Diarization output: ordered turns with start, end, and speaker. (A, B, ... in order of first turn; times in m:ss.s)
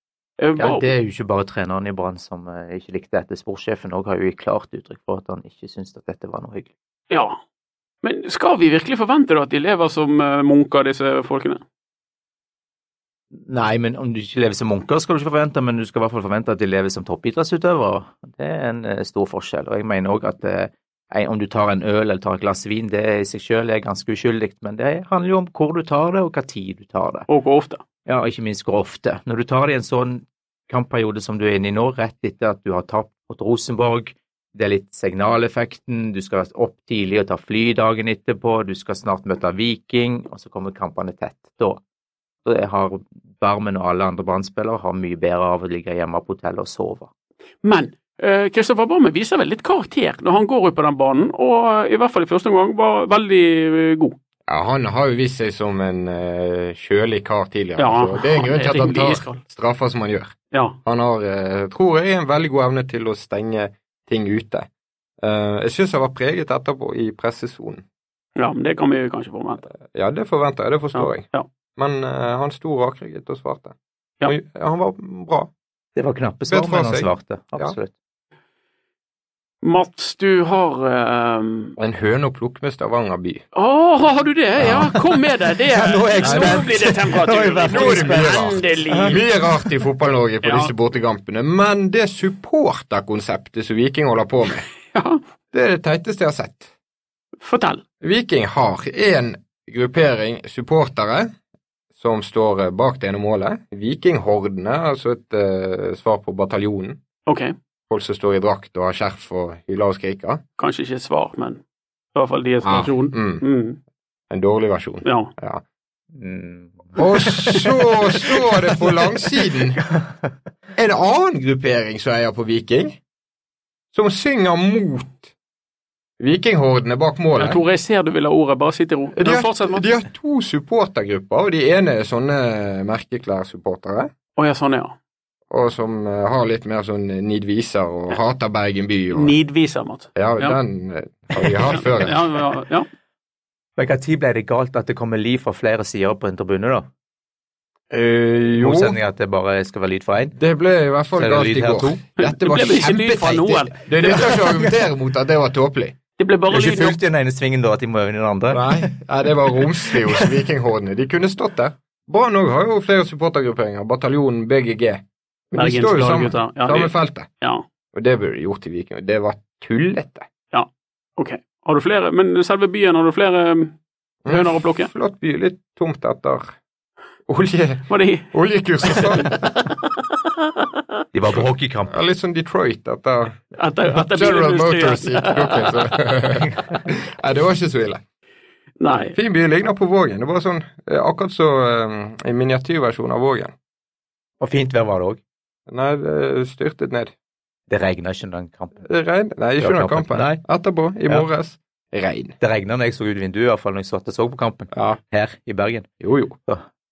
0:00.4-0:00.9 A
0:00.6-0:06.7 B
0:07.1-0:07.4 A
0:08.0-0:11.6 A
0:13.3-0:27.3 B
0:27.3-0:27.8 A
0:28.0-0:41.8 B
0:42.4-0:47.1 B
0:47.6-0:54.2 A
0:54.5-1:04.7 C
0:57.8-0:59.4 A
1:00.5-1:00.8 A
1:05.2-1:07.8 C
1:08.4-1:09.7 A
1:09.9-1:13.7 C
1:10.9-1:11.5 A
1:14.2-1:15.5 C
1:16.0-1:17.9 B
1:16.5-1:17.8 C
1:19.6-1:21.8 A
1:21.8-1:23.4 C
1:23.5-1:29.2 A
1:24.6-1:25.0 B
1:25.7-1:29.2 B
1:26.2-1:26.7 C
1:27.7-1:34.7 C
1:30.4-1:30.7 A
1:34.9-1:35.2 A
1:35.5-1:36.7 C
1:37.4-1:37.8 A
1:38.0-1:41.3 C
1:42.0-1:47.0 C
1:47.3-1:47.5 A
1:47.9-1:50.4 C
1:50.6-1:51.6 A
1:52.1-1:53.8 A
1:52.6-1:53.4 C
1:54.3-1:55.6 C
1:55.0-1:55.3 A
1:56.1-1:57.6 B
1:57.0-1:59.8 C
1:59.9-2:00.4 B
2:00.8-2:03.0 C
2:03.9-2:05.3 C
2:06.2-2:07.6 C
2:07.4-2:09.9 A
2:09.2-2:14.1 C
2:14.4-2:14.9 A
2:15.5-2:19.3 C
2:19.1-2:20.6 A
2:20.2-2:22.3 C
2:21.7-2:22.9 A
2:23.8-2:26.9 B
2:27.9-2:29.0 C
2:28.6-2:30.4 B
2:30.4-2:36.0 C
2:31.2-2:32.0 B
2:32.2-2:34.6 A
2:36.2-2:37.0 A
2:36.5-2:40.3 B
2:38.5-2:47.3 C
2:45.5-2:47.6 A
2:47.9-2:50.2 C
2:50.5-2:53.7 A
2:54.2-2:56.5 C
2:54.3-2:54.9 A
2:57.3-2:59.5 C
2:57.9-2:58.3 A
2:58.8-2:59.9 A
3:01.1-3:01.9 B
3:01.9-3:08.0 C
3:03.6-3:05.9 A
3:08.8-3:09.2 A
3:09.1-3:13.5 C
3:14.4-3:15.2 B
3:15.7-3:17.1 C
3:17.7-3:18.8 B
3:18.8-3:22.4 C
3:19.6-3:20.4 B
3:22.4-3:25.9 B
3:24.7-3:25.0 C
3:26.0-3:26.4 C